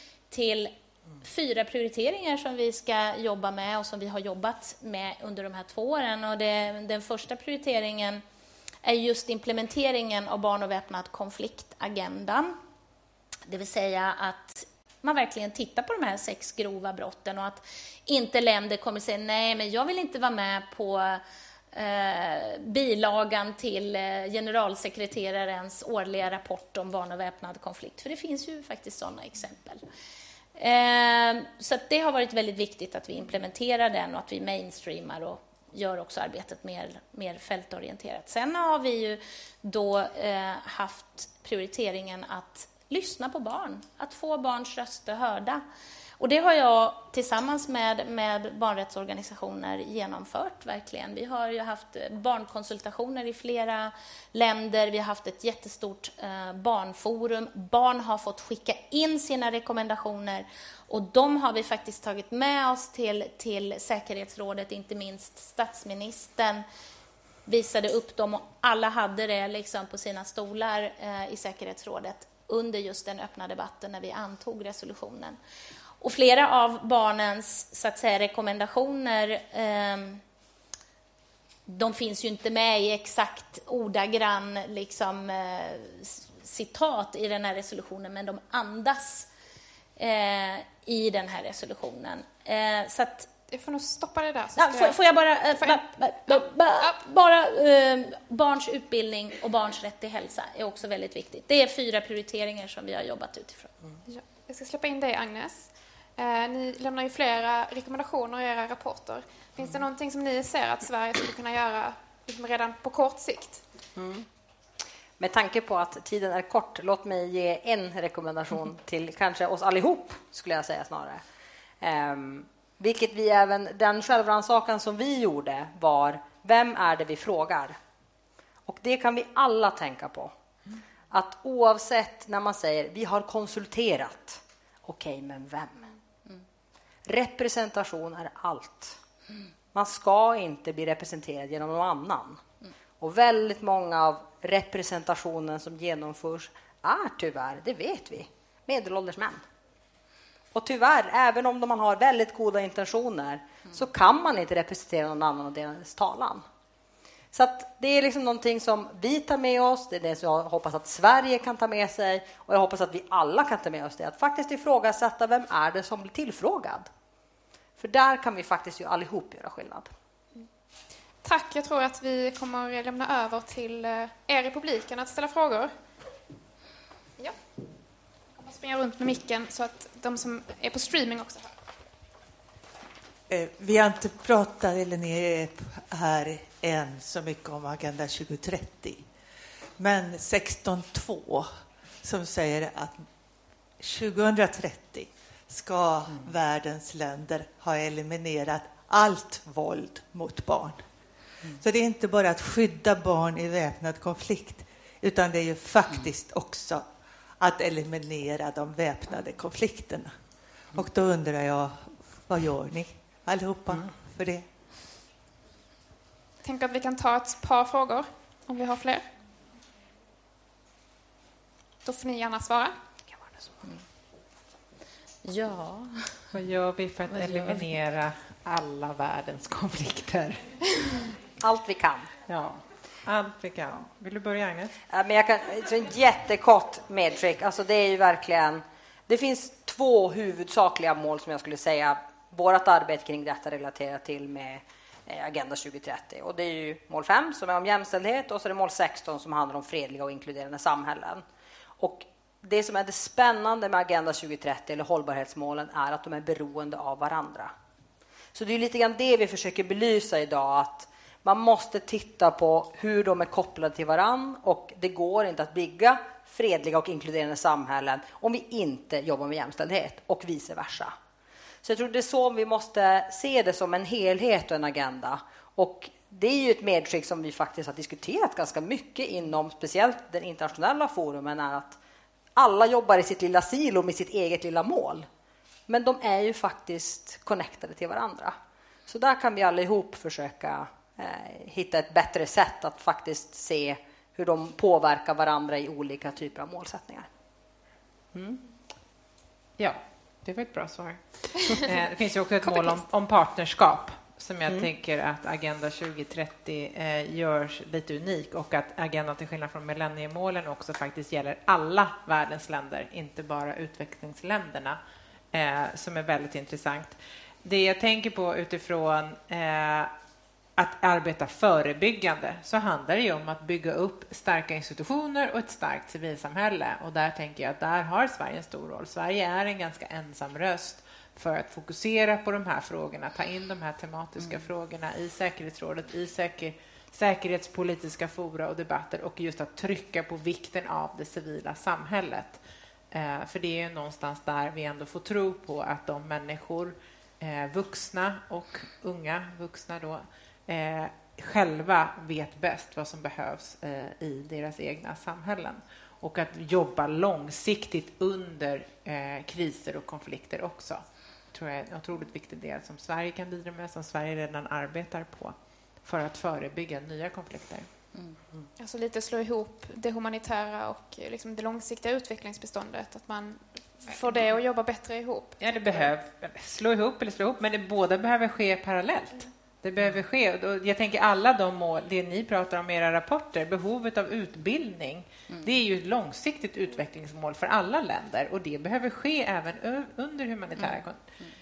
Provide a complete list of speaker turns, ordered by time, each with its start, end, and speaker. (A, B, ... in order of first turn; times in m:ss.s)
0:00.3-0:08.2 A
0:08.8-0:12.6 A
0:13.5-0:21.2 A
0:21.7-0:29.8 A
0:30.6-0:45.6 A
0:46.2-1:06.6 A
1:07.5-1:15.4 A
1:16.0-1:20.2 A
1:21.7-1:29.3 A
1:30.0-1:33.3 A
1:33.5-1:35.0 B
1:34.6-1:43.7 A
1:35.6-1:37.0 B
1:44.1-1:53.6 B
1:55.2-2:01.2 C
2:01.8-2:07.8 C
2:08.7-2:10.3 C
2:11.1-2:15.9 C
2:17.1-2:19.0 C
2:19.7-2:22.4 C
2:23.0-2:29.4 C
2:30.5-2:36.4 C
2:37.3-2:46.9 C
2:47.8-2:49.9 C
2:51.2-2:55.7 B
2:58.4-3:01.5 B
3:03.3-3:09.1 D
3:09.8-3:13.1 D
3:13.8-3:20.9 D
3:21.5-3:34.5 D
3:36.4-3:39.0 B
3:41.8-3:42.8 B
3:45.2-3:46.3 A
3:46.3-3:50.6 E
3:51.4-3:52.1 C
3:52.3-3:54.8 E
3:54.9-4:11.2 C
4:11.8-4:17.5 C
4:18.3-4:31.0 C
4:31.6-4:41.8 C
4:42.4-4:45.1 C
4:45.7-4:48.4 C
4:48.9-4:57.1 C
4:58.2-4:58.4 C
4:59.6-5:14.8 E
5:15.3-5:19.9 E
5:20.6-5:42.4 E
5:42.9-6:07.7 E
6:08.6-6:15.9 B
6:15.4-6:31.0 E